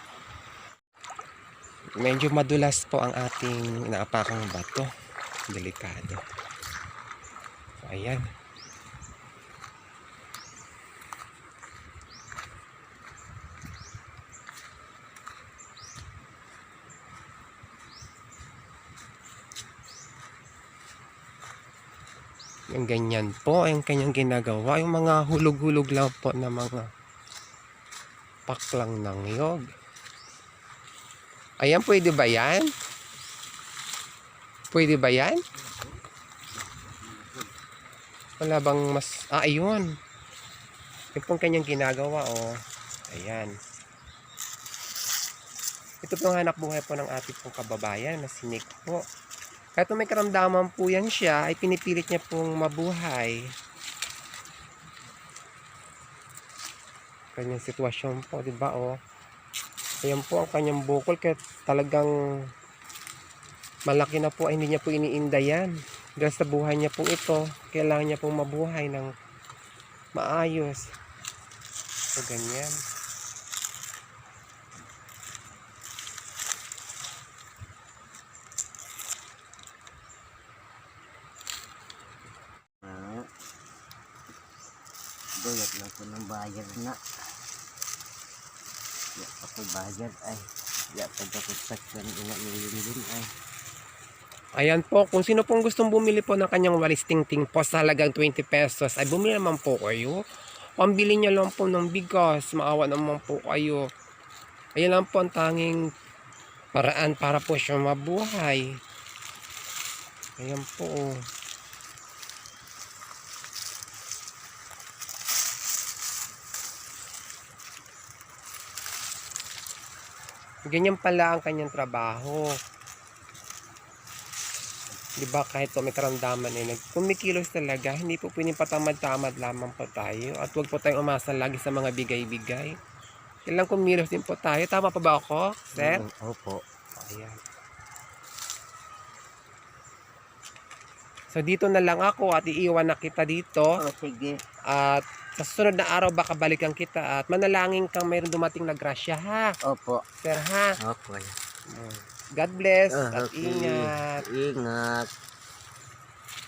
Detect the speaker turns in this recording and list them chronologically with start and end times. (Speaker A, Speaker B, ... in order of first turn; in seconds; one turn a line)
Speaker A: 2.0-4.9
Speaker A: 5.5-6.2
Speaker A: 7.8-8.2
Speaker A: 22.7-26.9
Speaker A: 28.5-29.7
Speaker A: 31.6-32.7
Speaker A: 34.7-35.4
Speaker B: 35.6-36.0
Speaker B: 36.8-37.5
Speaker A: 38.4-39.9
Speaker A: 41.1-42.5
Speaker A: 43.1-43.5
Speaker A: 46.0-49.0
Speaker A: 49.8-53.4
Speaker A: 57.4-59.0
Speaker A: 60.0-62.1
Speaker A: 63.9-69.1
Speaker A: 70.2-70.9
Speaker A: 72.2-72.7
Speaker B: 82.8-83.3
Speaker B: 85.4-87.0
Speaker B: 89.2-93.3
Speaker A: 94.6-100.2
Speaker A: 100.8-103.8
Speaker A: 104.8-105.8
Speaker A: 106.7-108.7
Speaker A: 110.4-111.2
Speaker A: 120.7-122.5
Speaker A: 125.2-132.8
Speaker A: 133.5-136.1
Speaker B: 135.8-136.6
Speaker A: 137.0-137.4
Speaker A: 141.3-143.7
Speaker B: 143.8-144.4
Speaker A: 144.7-149.5
Speaker B: 149.7-150.0
Speaker A: 150.2-150.8
Speaker B: 150.8-151.4
Speaker A: 151.7-154.2
Speaker B: 152.9-155.1